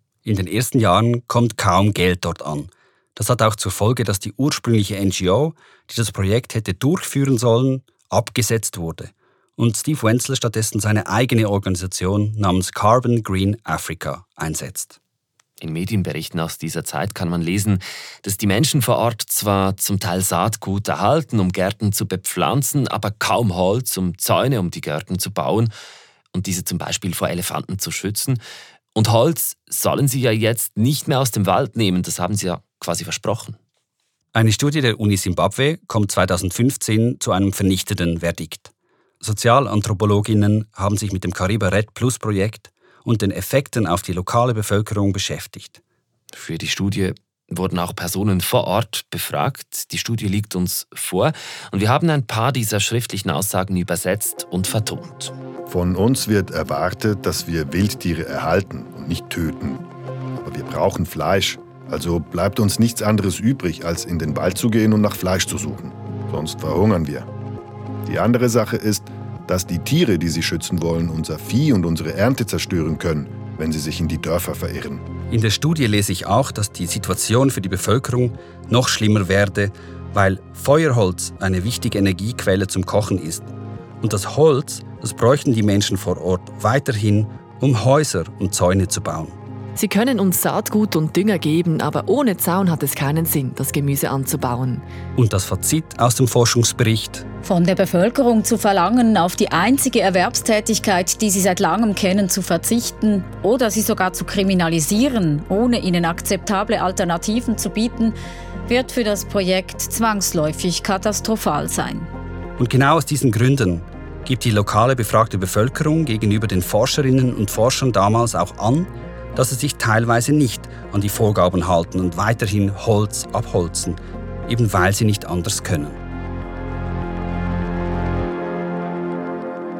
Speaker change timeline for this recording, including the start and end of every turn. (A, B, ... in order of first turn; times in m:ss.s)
0:00.2-0:15.0 A
0:15.6-0:25.7 B
0:26.3-0:28.4 B
0:29.0-0:33.6 B
0:34.3-0:45.8 A
0:46.3-0:55.4 B
0:55.7-0:59.8 C
1:00.4-1:07.3 C
1:08.1-1:15.0 C
1:15.3-1:29.4 A
1:29.8-1:34.8 D
1:35.2-1:37.3 A
1:37.4-1:48.1 E
1:48.7-1:52.1 E
1:52.6-2:06.0 A